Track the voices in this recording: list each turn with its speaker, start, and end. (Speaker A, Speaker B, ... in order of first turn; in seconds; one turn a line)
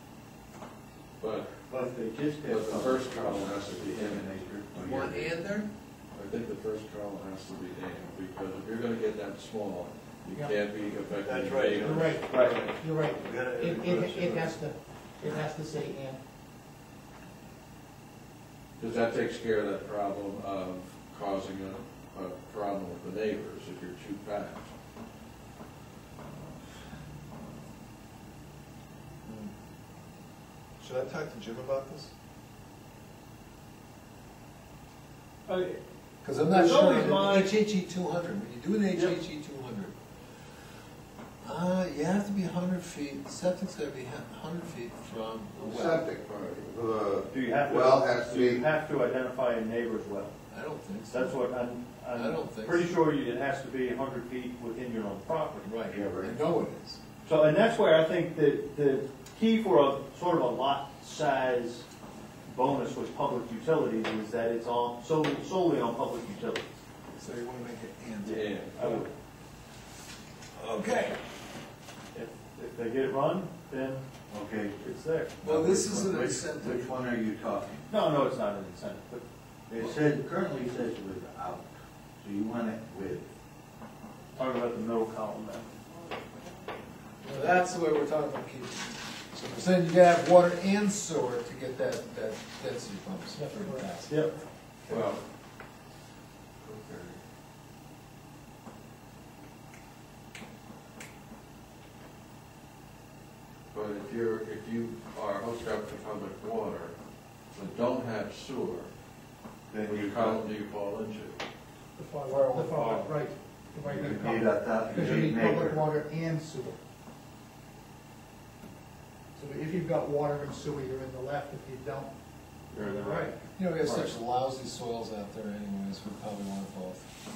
Speaker A: 1.2-1.6
Speaker B: 1.7-5.1
Speaker A: 2.4-4.3
Speaker C: 4.7-5.7
Speaker A: 6.1-12.6
Speaker B: 11.2-14.5
Speaker D: 11.7-16.2
Speaker E: 12.0-12.7
Speaker A: 18.8-24.7
Speaker C: 29.2-29.5
Speaker C: 30.8-32.1
Speaker E: 35.5-35.8
Speaker C: 36.2-40.0
Speaker E: 36.4-37.5
Speaker C: 41.4-46.0
Speaker F: 45.6-48.6
Speaker E: 47.3-50.3
Speaker C: 50.5-51.4
Speaker E: 51.1-55.6
Speaker C: 52.1-52.9
Speaker C: 55.6-57.0
Speaker F: 55.9-56.4
Speaker E: 57.2-61.9
Speaker E: 62.5-66.8
Speaker C: 67.2-68.5
Speaker A: 68.2-69.1
Speaker E: 68.7-69.1
Speaker C: 70.5-71.2
Speaker E: 72.1-74.0
Speaker B: 74.3-74.8
Speaker E: 74.8-75.4
Speaker C: 75.4-77.0
Speaker B: 75.4-77.8
Speaker E: 77.9-79.2
Speaker B: 79.7-83.2
Speaker E: 84.4-85.7
Speaker C: 87.2-94.2
Speaker D: 93.3-93.9
Speaker A: 94.9-95.2
Speaker A: 96.6-97.2
Speaker A: 103.7-107.0
Speaker A: 107.5-108.9
Speaker B: 109.7-110.4
Speaker A: 109.8-111.4
Speaker D: 112.0-116.8
Speaker B: 112.4-113.1
Speaker B: 113.8-115.8
Speaker D: 119.4-122.1
Speaker E: 122.7-124.1
Speaker D: 122.8-123.3
Speaker C: 123.5-127.1